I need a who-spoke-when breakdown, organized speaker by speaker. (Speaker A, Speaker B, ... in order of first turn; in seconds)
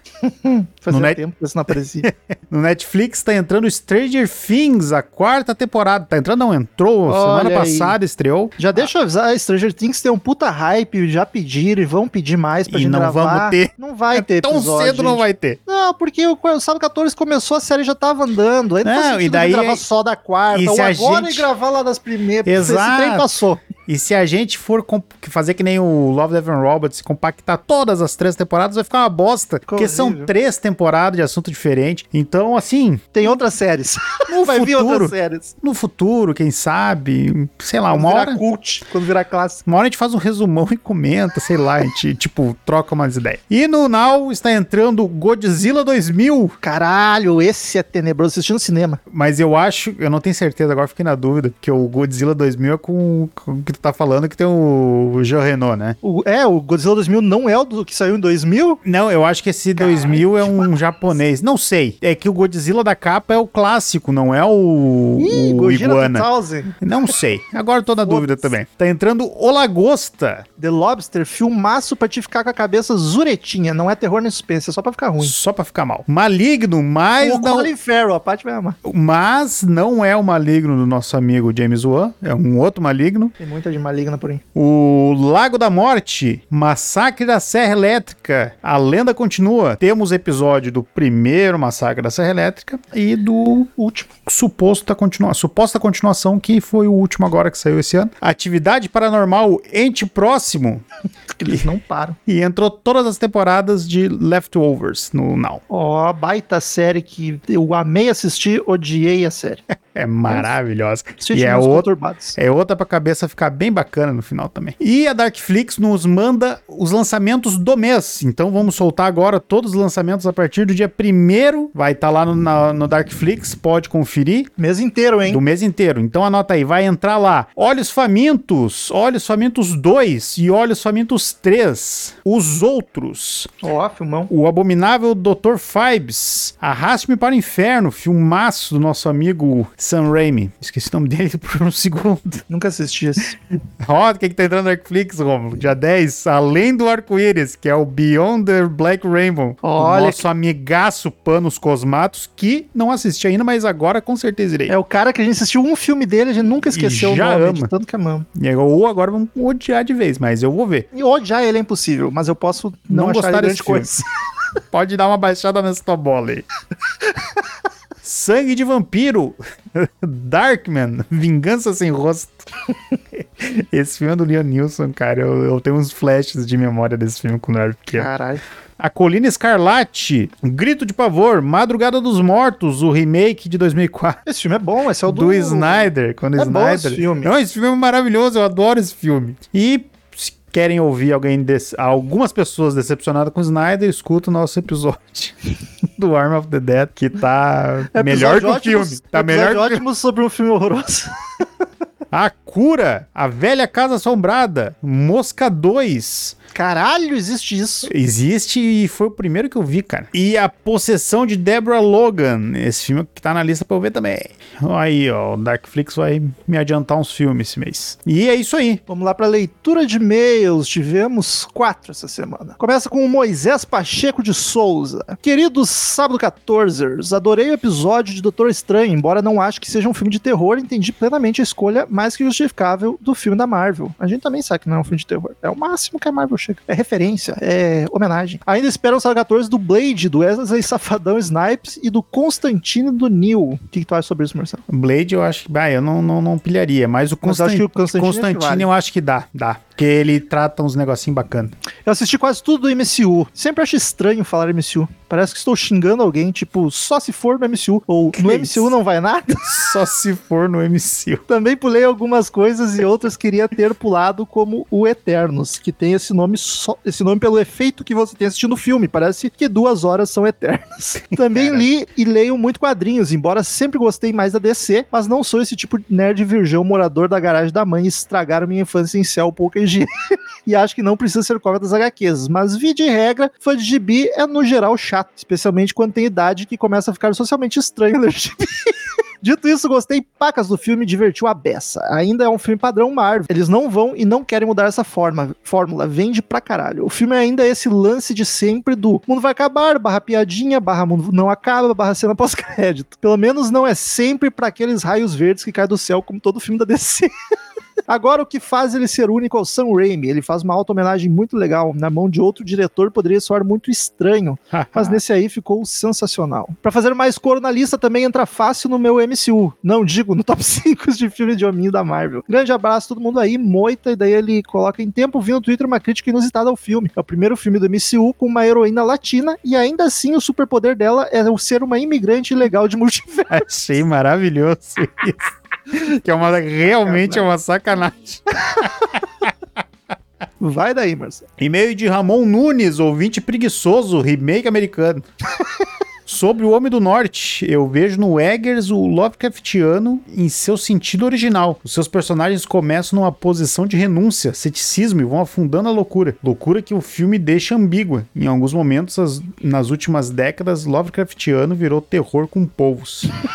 Speaker A: 0.2-2.1, 7.1-8.0, 8.6-23.6, 29.7-30.3, 33.1-35.5, 37.9-39.6, 46.6-49.0, 56.0-58.8, 59.8-60.7, 65.2-66.7, 68.0-68.4, 70.6-75.3, 77.2-78.8, 83.4-84.4, 93.8-94.2, 101.4-102.2, 105.7-109.6, 111.2-112.4, 124.6-125.4, 133.6-134.3, 142.5-143.4, 149.6-150.2, 154.7-158.3, 160.9-164.1, 177.9-178.4, 184.2-187.3, 197.9-201.4, 206.5-207.9, 218.9-244.6, 247.2-248.7, 251.8-259.6, 261.3-279.9, 280.4-307.1, 307.9-333.4, 336.8-337.3, 340.4-341.2
Speaker B: 0.9-1.2, 2.0-8.9, 12.7-15.6, 18.8-19.8, 20.5-21.5, 22.4-23.3, 23.9-33.0, 34.3-38.4, 39.6-46.5, 49.1-56.0, 58.8-66.3, 66.8-70.4, 75.2-77.7, 78.8-83.3, 84.5-93.7, 94.2-100.8, 102.2-105.6, 109.7-124.5, 125.3-133.5, 134.3-142.4, 143.8-154.7, 156.7-157.7, 158.3-160.9, 162.9-163.9, 164.7-166.4, 168.0-172.5, 173.1-178.1, 178.8-184.2, 185.1-195.3, 196.0-199.8, 202.1-206.3, 207.8-218.8, 244.7-251.5, 258.1-258.7, 259.4-261.2, 271.1-271.7, 314.5-315.0, 333.3-339.3, 341.4-345.1, 346.1-363.1